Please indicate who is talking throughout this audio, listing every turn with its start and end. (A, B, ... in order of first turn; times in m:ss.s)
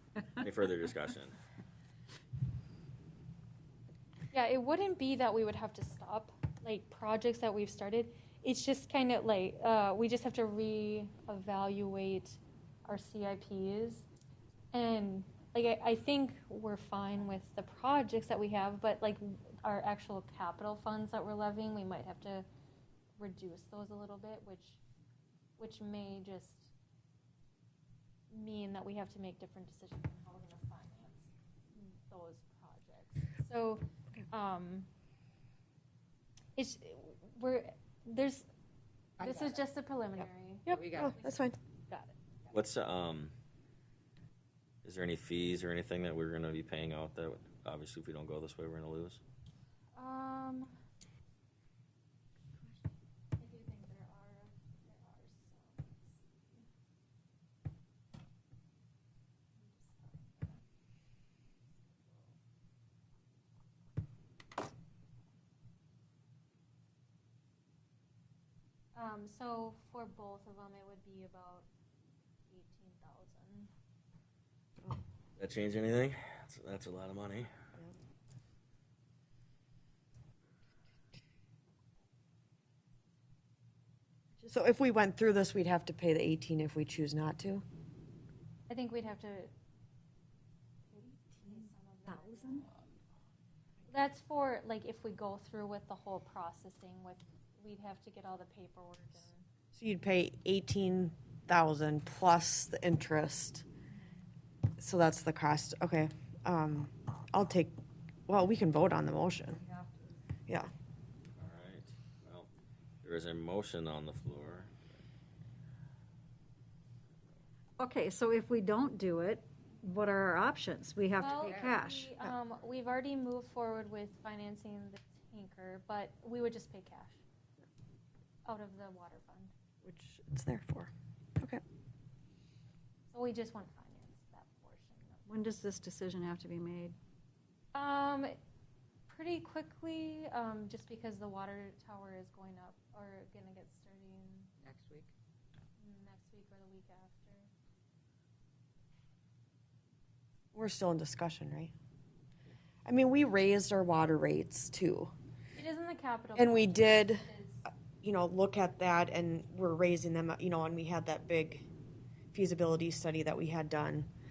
0:00.4-0:01.4 A
0:04.3-0:14.0 B
0:14.7-0:22.4 B
0:23.2-0:24.8 B
0:25.6-0:26.7 B
0:28.3-0:34.9 B
0:36.6-0:38.5 B
0:39.2-0:39.6 C
0:39.2-0:42.6 B
0:40.7-0:41.6 D
0:40.7-0:41.2 C
0:42.5-0:43.3 A
0:44.8-0:49.2 A
0:50.0-0:50.7 B
0:52.6-0:56.6 B
0:59.6-1:00.6 B
1:01.7-1:02.4 B
1:09.0-1:11.7 B
1:12.5-1:13.7 B
1:15.4-1:17.5 A
1:24.5-1:27.6 D
1:28.7-1:29.5 B
1:30.9-1:32.7 B
1:32.1-1:32.6 E
1:33.9-1:39.4 B
1:39.7-1:43.6 D
1:44.8-1:47.7 D
1:48.3-1:49.6 D
1:49.6-1:49.9 E
1:51.4-1:52.5 A
1:53.0-1:54.7 A
1:57.8-2:02.1 E
2:01.2-2:07.2 B
2:01.3-2:01.8 C
2:08.4-2:09.5 B
2:09.8-2:11.6 D
2:13.1-2:15.2 B
2:15.3-2:17.0 E
2:17.7-2:18.3 B
2:19.1-2:24.5 B
2:24.6-2:25.1 C
2:25.8-2:27.5 B
2:30.5-2:31.7 D
2:32.9-2:35.1 D
2:35.6-2:37.7 B
2:36.4-2:37.3 D
2:38.0-2:41.7 D
2:42.3-2:44.1 D